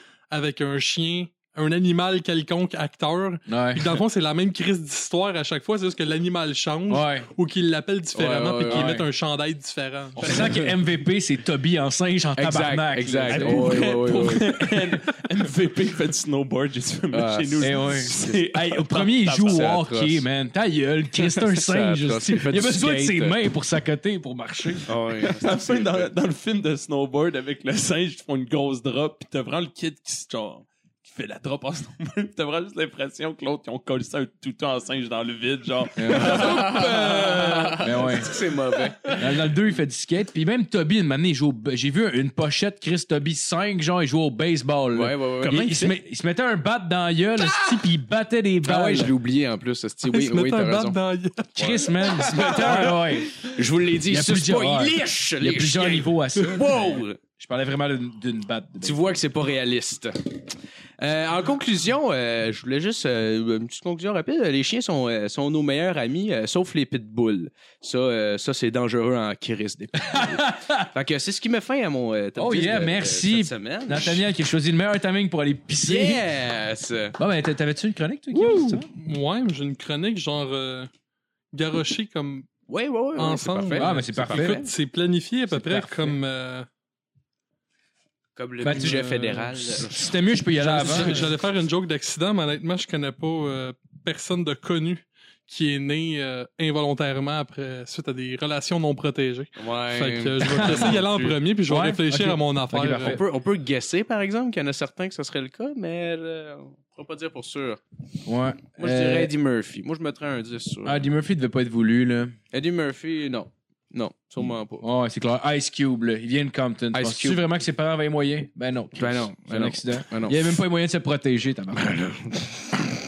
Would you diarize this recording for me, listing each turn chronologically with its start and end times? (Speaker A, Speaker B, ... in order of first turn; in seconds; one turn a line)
Speaker A: 0.3-10.3
Speaker B: 3.5-4.0
Speaker B: 6.9-7.3
Speaker C: 8.1-8.9
Speaker B: 8.7-9.1
Speaker B: 10.2-14.2
Speaker C: 10.2-10.5
Speaker C: 12.4-14.5
Speaker D: 13.3-19.8
Speaker C: 17.1-18.4
Speaker B: 17.6-24.9
Speaker C: 19.5-20.2
Speaker C: 21.2-23.4
Speaker C: 24.9-26.1
Speaker D: 25.4-37.9
Speaker B: 36.0-36.6
Speaker C: 36.1-39.1
Speaker B: 37.8-38.3
Speaker B: 39.1-49.1
Speaker C: 44.9-45.7
Speaker D: 45.4-45.9
Speaker C: 48.6-51.0
Speaker A: 50.1-51.9
Speaker B: 51.6-53.5
Speaker C: 51.6-57.2
Speaker B: 54.1-59.1
Speaker C: 58.8-60.4
Speaker C: 61.0-74.2
Speaker B: 70.1-70.9
Speaker B: 72.4-76.2
Speaker C: 75.8-77.2
Speaker B: 77.2-78.9
Speaker A: 78.3-80.9
Speaker A: 81.5-82.5
Speaker C: 82.7-84.7
Speaker A: 83.2-86.7
Speaker B: 83.8-84.6
Speaker B: 85.5-86.2
Speaker C: 88.4-91.3
Speaker B: 88.6-91.2
Speaker A: 88.7-89.4
Speaker A: 90.6-103.2
Speaker C: 99.6-101.4
Speaker B: 100.6-101.0
Speaker B: 101.7-103.2
Speaker C: 103.0-107.8
Speaker B: 108.3-109.3
Speaker C: 108.8-111.0
Speaker B: 110.8-112.4
Speaker C: 112.5-114.8
Speaker B: 114.8-122.0
Speaker C: 116.9-117.4
Speaker C: 119.0-120.6
Speaker C: 121.8-122.6